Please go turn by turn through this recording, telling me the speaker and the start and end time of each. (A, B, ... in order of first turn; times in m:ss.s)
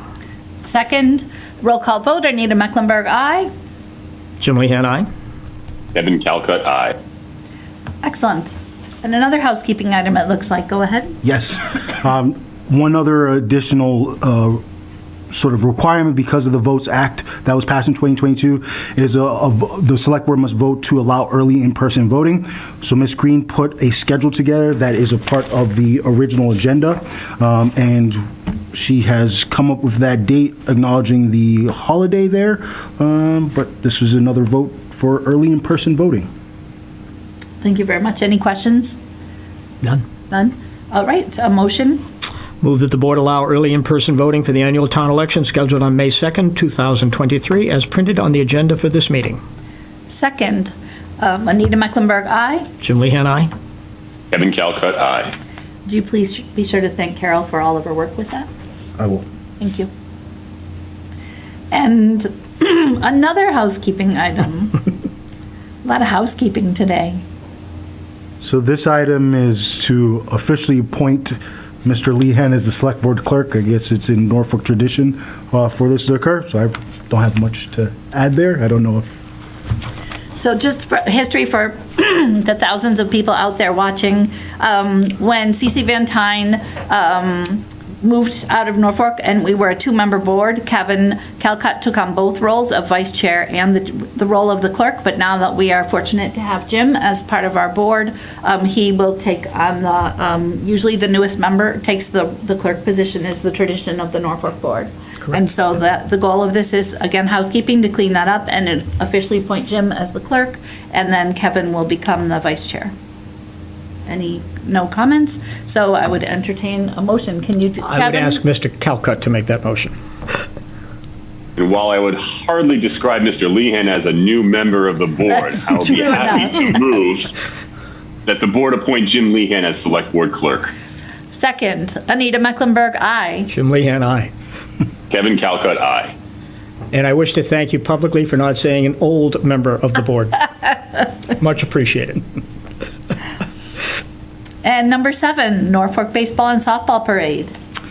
0:00.6-0:03.5 A
0:04.4-0:05.1 B
0:05.9-0:07.0 C
0:08.0-0:11.2 A
0:11.2-0:14.6 D
0:15.3-0:36.3 D
0:37.6-0:39.0 A
0:40.3-0:42.0 A
0:42.6-0:49.4 B
0:50.1-0:52.7 A
0:52.8-0:53.5 B
0:54.3-0:55.3 C
0:55.9-0:58.5 A
0:59.0-0:59.2 D
0:59.6-0:59.9 A
1:01.7-1:04.8 A
1:05.8-1:07.2 A
1:08.4-1:19.1 D
1:20.4-1:52.9 A
1:54.1-1:58.4 A
1:57.8-1:59.9 B
2:01.6-2:07.3 C
2:05.3-2:06.8 A
2:08.3-2:10.7 C
2:11.3-2:13.5 A
2:13.5-2:14.3 B
2:15.1-2:16.1 C
2:16.9-2:20.7 B
2:21.3-2:22.2 B
2:24.6-2:27.5 A